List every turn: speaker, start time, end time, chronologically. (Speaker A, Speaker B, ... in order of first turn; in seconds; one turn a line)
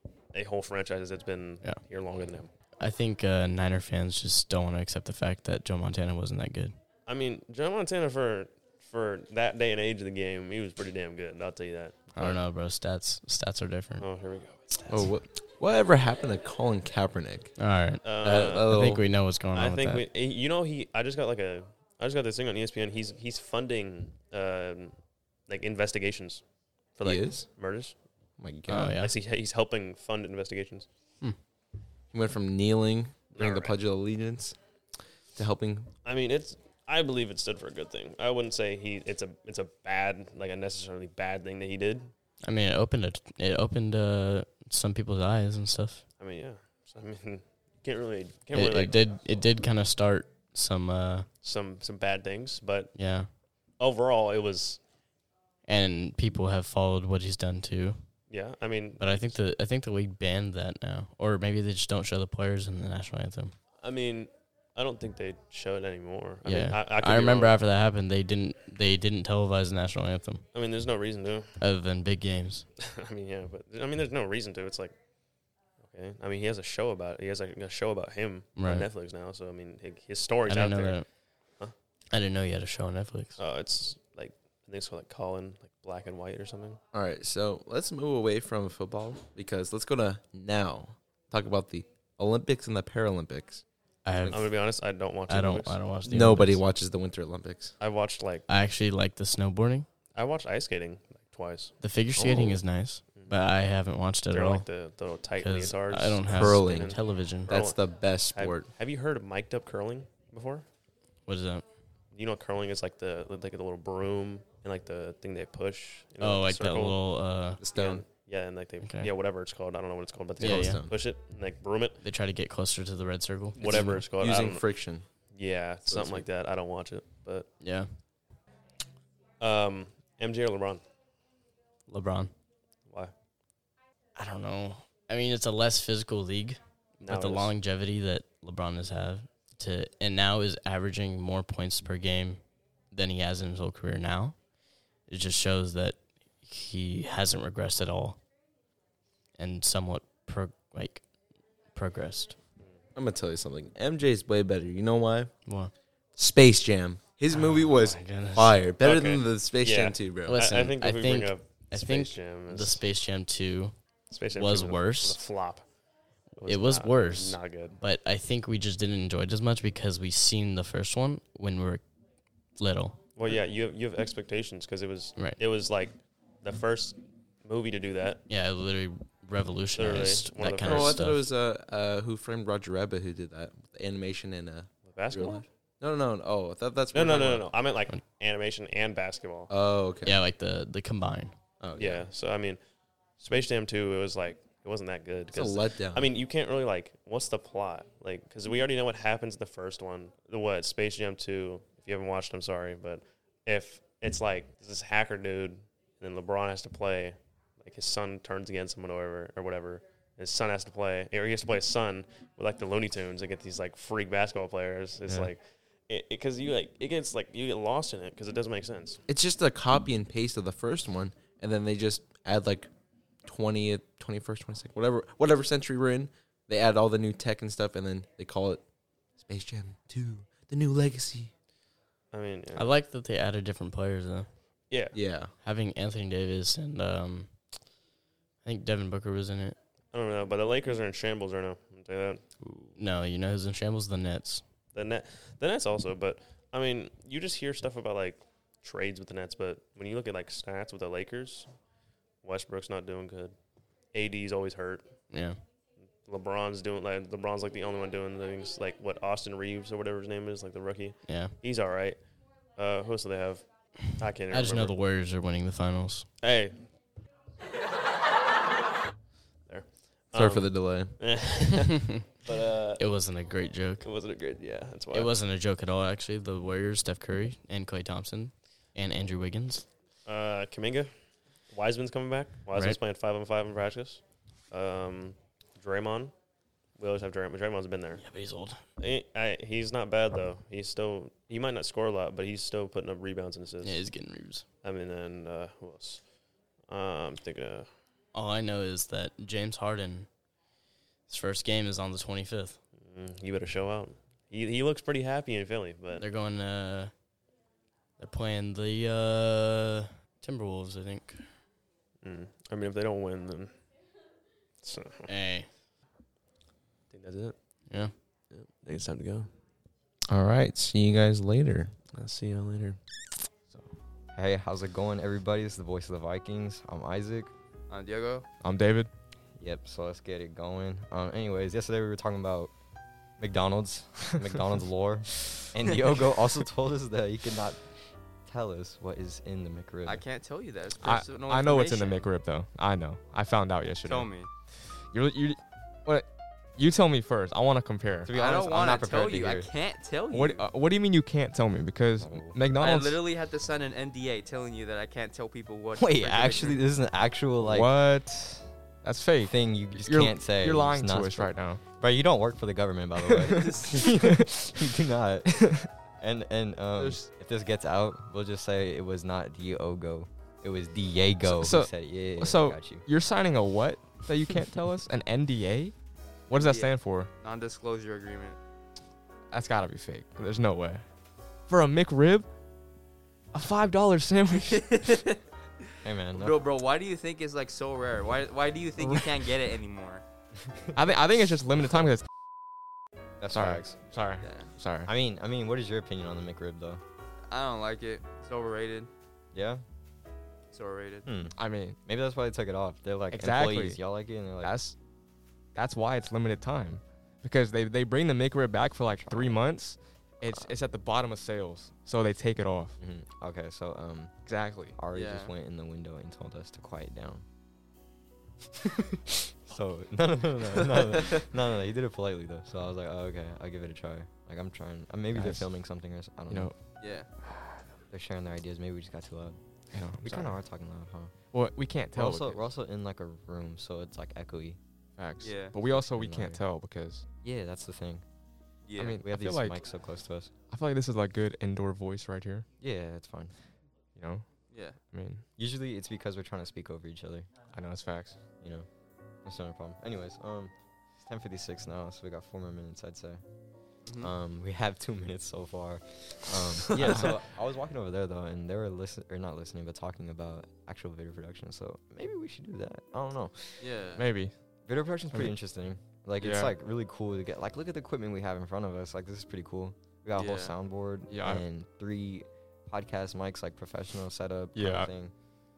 Speaker A: 0.3-2.5
Speaker B: 1.6-1.9
Speaker B: 2.7-6.8
Speaker A: 7.1-12.4
Speaker B: 12.1-14.1
Speaker A: 14.0-15.0
Speaker C: 14.9-19.1
Speaker B: 17.6-20.1
Speaker A: 18.0-18.7
Speaker A: 19.5-28.1
Speaker C: 27.0-27.5
Speaker C: 28.4-29.0
Speaker B: 28.7-29.1
Speaker A: 28.9-30.9
Speaker C: 32.1-34.6
Speaker A: 33.3-33.8
Speaker C: 35.4-35.9
Speaker A: 36.0-42.1
Speaker B: 42.4-46.0
Speaker A: 46.2-49.2
Speaker B: 48.5-51.3
Speaker A: 51.4-54.8
Speaker B: 52.9-53.4
Speaker B: 55.6-58.1
Speaker A: 58.3-59.3
Speaker B: 59.0-63.6
Speaker A: 63.8-67.6
Speaker B: 66.5-70.5
Speaker A: 70.5-71.6
Speaker B: 71.6-72.7
Speaker A: 72.8-75.0
Speaker A: 75.8-81.0
Speaker B: 78.6-78.9
Speaker B: 80.5-81.1
Speaker B: 82.1-83.4
Speaker A: 83.4-86.8
Speaker C: 86.9-93.7
Speaker B: 94.0-94.6
Speaker C: 94.2-94.5
Speaker A: 94.3-95.8
Speaker B: 95.3-96.6
Speaker C: 96.0-97.8
Speaker A: 97.8-98.5
Speaker B: 98.5-99.9
Speaker A: 100.1-101.7
Speaker B: 101.8-104.7
Speaker C: 102.2-102.6
Speaker A: 104.3-110.7
Speaker B: 105.4-107.5
Speaker C: 106.2-108.7
Speaker B: 111.2-111.7
Speaker A: 112.1-117.0
Speaker B: 116.2-117.7
Speaker C: 117.6-118.1
Speaker A: 117.7-122.0
Speaker B: 118.8-119.1
Speaker B: 120.4-120.8
Speaker C: 120.4-121.1
Speaker B: 122.0-124.1
Speaker A: 123.6-124.7
Speaker C: 123.7-125.1
Speaker A: 125.3-127.5
Speaker C: 125.9-126.3
Speaker B: 127.6-128.0
Speaker A: 129.4-130.8
Speaker B: 131.9-132.3
Speaker A: 132.9-133.1
Speaker B: 134.2-144.4
Speaker A: 137.0-137.5
Speaker B: 145.0-148.2
Speaker B: 149.3-152.5
Speaker C: 152.9-155.3
Speaker B: 155.4-155.7
Speaker C: 156.2-160.5
Speaker B: 157.3-158.7
Speaker A: 158.7-162.9
Speaker B: 160.2-165.2
Speaker A: 164.1-165.7
Speaker A: 166.3-167.8
Speaker B: 166.5-171.9
Speaker B: 172.6-173.0
Speaker A: 173.1-178.2
Speaker B: 175.2-175.4
Speaker B: 178.3-181.2
Speaker A: 179.7-181.0
Speaker C: 180.5-187.8
Speaker A: 184.8-185.5
Speaker A: 186.9-189.5
Speaker C: 189.5-190.2
Speaker B: 190.1-191.4
Speaker C: 191.6-192.1
Speaker A: 191.8-192.6
Speaker A: 193.2-219.0
Speaker C: 195.3-196.2
Speaker D: 215.1-215.3
Speaker C: 219.1-222.7
Speaker C: 223.2-228.7
Speaker C: 229.2-231.3
Speaker A: 232.1-232.7
Speaker B: 232.6-234.3
Speaker A: 234.7-235.0
Speaker C: 234.9-235.3
Speaker B: 235.4-237.7
Speaker B: 238.4-239.6
Speaker A: 239.9-242.3
Speaker C: 242.5-242.7
Speaker B: 242.8-244.4
Speaker A: 244.7-251.6
Speaker A: 252.2-255.0
Speaker B: 255.0-255.4
Speaker A: 256.0-264.8
Speaker B: 261.0-261.4
Speaker B: 264.3-266.1
Speaker A: 266.2-266.7
Speaker A: 269.5-272.8
Speaker C: 270.1-271.4
Speaker B: 271.7-272.1
Speaker B: 272.8-273.9
Speaker A: 273.8-275.2
Speaker B: 274.9-279.7
Speaker A: 280.1-286.1
Speaker B: 282.5-282.8
Speaker A: 286.8-288.1
Speaker B: 288.0-288.6
Speaker A: 288.8-293.8
Speaker B: 293.6-294.5
Speaker A: 294.6-296.1
Speaker A: 296.6-297.7
Speaker B: 298.1-300.1
Speaker B: 301.1-302.6
Speaker A: 302.8-306.1
Speaker B: 306.0-306.9
Speaker B: 308.0-311.3
Speaker A: 312.0-313.6
Speaker A: 314.6-315.1
Speaker B: 315.1-315.5
Speaker A: 316.9-317.4
Speaker B: 317.6-318.0
Speaker A: 318.3-319.3
Speaker C: 320.1-321.8
Speaker A: 321.9-322.8
Speaker D: 323.5-323.7
Speaker E: 324.1-327.3
Speaker F: 327.7-328.3
Speaker D: 328.4-328.9
Speaker E: 329.4-332.5
Speaker E: 333.2-340.0
Speaker F: 339.9-342.1
Speaker D: 340.7-348.2
Speaker F: 343.8-344.3
Speaker E: 348.1-349.5
Speaker F: 348.1-350.5
Speaker D: 350.1-353.1
Speaker E: 352.0-352.4
Speaker F: 352.6-356.6
Speaker E: 355.7-357.8
Speaker D: 357.4-361.6
Speaker E: 359.2-372.9
Speaker F: 363.4-363.8
Speaker D: 363.8-364.2
Speaker F: 366.8-367.1
Speaker D: 371.2-375.8
Speaker D: 376.3-377.1
Speaker F: 376.4-378.4
Speaker D: 379.3-380.9
Speaker D: 381.4-382.3
Speaker D: 383.3-384.9
Speaker F: 384.5-385.2
Speaker E: 385.8-386.4
Speaker F: 386.1-390.1
Speaker D: 388.8-389.2
Speaker E: 390.5-390.9
Speaker D: 390.8-392.1
Speaker E: 393.2-393.8
Speaker D: 393.3-394.9
Speaker F: 394.2-394.5
Speaker E: 394.9-396.8
Speaker F: 397.2-398.9
Speaker E: 399.3-399.6
Speaker F: 400.5-401.1
Speaker E: 401.1-404.6
Speaker D: 401.3-401.8
Speaker D: 403.1-403.8
Speaker D: 404.4-404.8
Speaker D: 405.6-412.8
Speaker E: 408.9-409.4
Speaker E: 410.2-410.5
Speaker E: 412.8-414.1
Speaker D: 414.3-414.8
Speaker E: 414.8-417.2
Speaker F: 414.9-415.3
Speaker E: 419.4-426.5
Speaker D: 425.1-425.5
Speaker D: 426.3-426.6
Speaker F: 426.8-427.1
Speaker E: 427.9-431.1
Speaker D: 429.7-430.5
Speaker D: 431.3-432.5
Speaker E: 431.9-434.6
Speaker D: 435.0-437.1
Speaker F: 435.2-435.6
Speaker E: 435.7-436.4
Speaker E: 437.2-438.1
Speaker F: 438.6-439.0
Speaker D: 438.8-439.7
Speaker E: 439.0-440.3
Speaker D: 440.5-442.5
Speaker E: 442.6-443.5
Speaker D: 443.9-445.3
Speaker F: 444.5-444.8
Speaker E: 445.4-447.3
Speaker D: 447.5-448.2
Speaker E: 448.4-448.7
Speaker E: 449.2-463.8
Speaker F: 453.9-454.1
Speaker D: 456.8-457.1
Speaker F: 463.6-464.1
Speaker D: 464.0-464.4
Speaker E: 464.7-475.2
Speaker D: 465.1-465.4
Speaker D: 466.2-466.5
Speaker F: 470.2-470.6
Speaker D: 471.1-471.4
Speaker D: 474.5-475.0